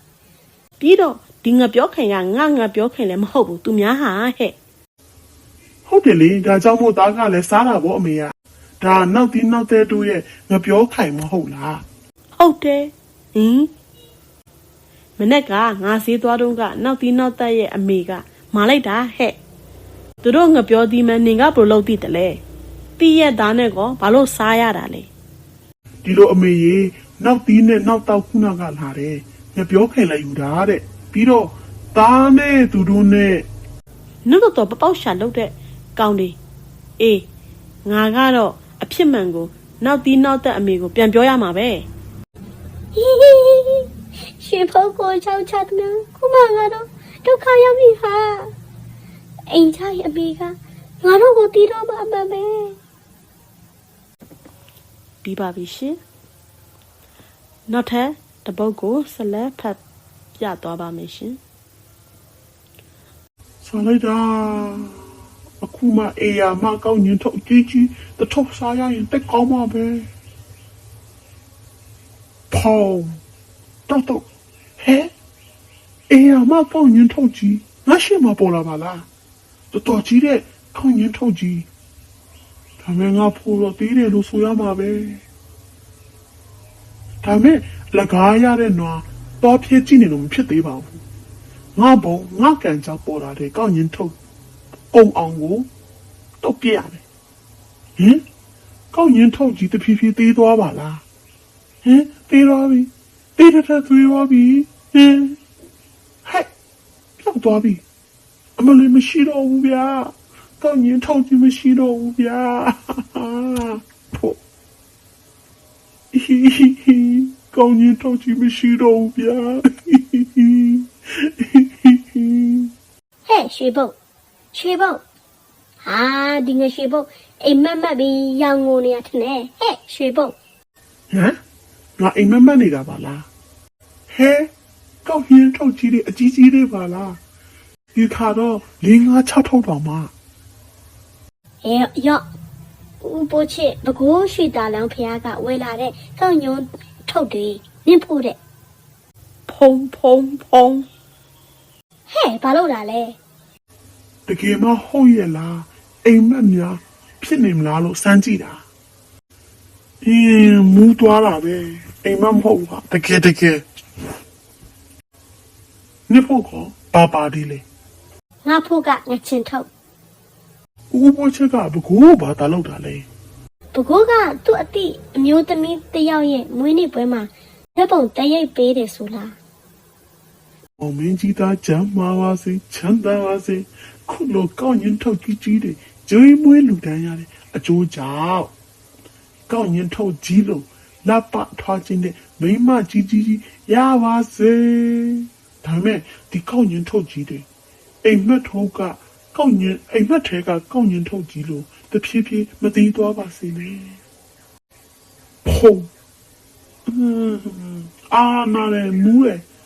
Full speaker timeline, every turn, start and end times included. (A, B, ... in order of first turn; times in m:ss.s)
0:00.8-0:04.5 A
0:05.8-0:11.8 B
0:12.4-0:13.7 A
0:15.2-0:19.4 A
0:20.2-0:22.4 A
0:23.0-0:25.1 A
0:26.0-0:33.5 B
0:34.2-0:36.4 A
0:37.0-0:37.2 A
0:37.8-0:41.9 A
0:42.9-0:48.5 C
0:49.5-0:52.8 C
0:55.2-0:56.0 A
0:57.7-0:59.8 A
1:00.4-1:01.4 A
1:03.6-1:05.1 B
1:05.6-1:10.1 B
1:12.5-1:13.2 B
1:13.9-1:14.2 B
1:14.8-1:15.1 B
1:16.1-1:19.1 B
1:19.7-1:21.7 B
1:22.8-1:25.2 B
1:27.2-1:31.0 B
1:31.8-1:34.1 B
1:34.9-1:35.7 B
1:36.4-1:37.0 B
1:38.0-1:38.2 B
1:38.9-1:41.0 B
1:41.8-1:45.4 B
1:46.2-1:46.5 B
1:47.2-1:47.8 B
1:48.6-1:54.4 B
1:56.1-2:02.7 B
2:03.3-2:03.9 C
2:04.5-2:05.0 C
2:05.8-2:10.3 C
2:11.1-2:11.4 B
2:12.0-2:13.3 B
2:14.1-2:14.5 B
2:15.0-2:17.2 B
2:17.9-2:20.1 B
2:21.6-2:22.2 C
2:23.0-2:28.4 C
2:29.5-2:30.8 A
2:32.1-2:33.2 C
2:34.3-2:38.6 B
2:40.0-2:43.6 B
2:46.1-2:47.6 B
2:48.4-2:49.7 C
2:50.9-2:53.1 B
2:53.7-2:59.3 C
3:00.8-3:08.5 B
3:09.5-3:17.4 B
3:18.0-3:24.0 B
3:25.4-3:25.9 B
3:26.8-3:29.4 B